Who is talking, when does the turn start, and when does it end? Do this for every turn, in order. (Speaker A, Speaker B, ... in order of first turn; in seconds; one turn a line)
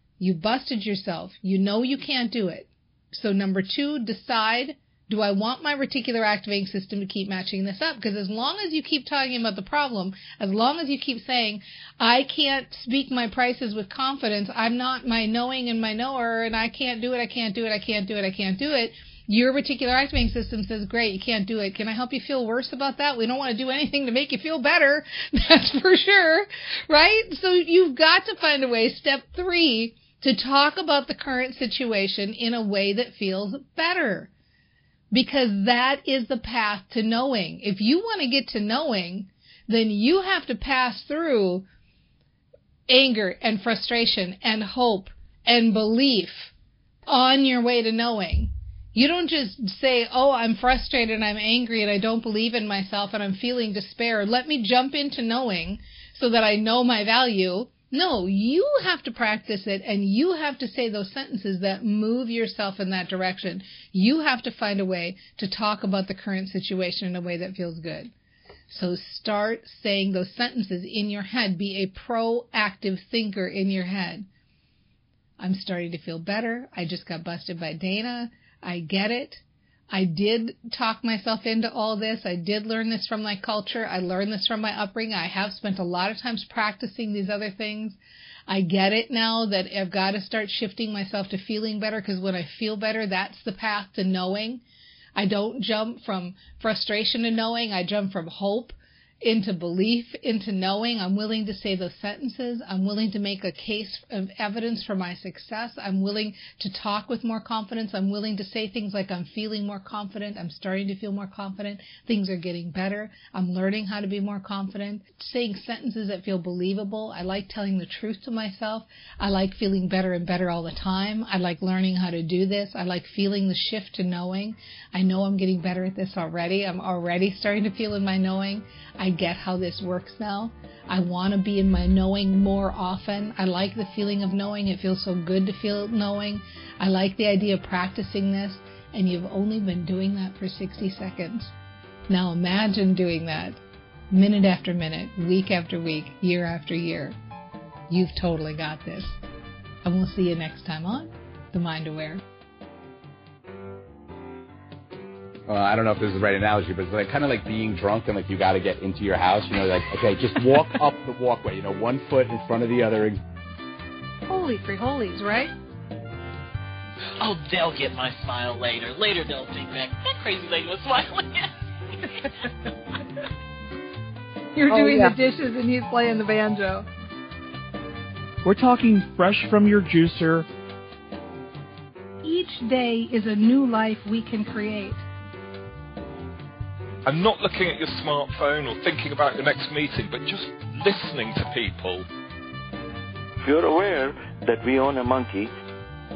Speaker A: 0.2-34.3
Speaker A: 35.1-41.7
Speaker A: 42.9-46.5
Speaker A: 47.1-68.1
Speaker A: 68.7-74.2
Speaker A: 75.4-94.6
Speaker A: 95.2-141.5
Speaker A: 142.1-147.2
Speaker A: 147.9-149.2
Speaker A: 149.8-152.2
Speaker B: 155.5-163.2
Speaker A: 164.3-165.5
Speaker C: 167.2-171.4
Speaker A: 174.6-176.9
Speaker D: 178.4-180.4
Speaker A: 182.2-185.1
Speaker E: 187.1-192.1
Speaker F: 193.4-195.5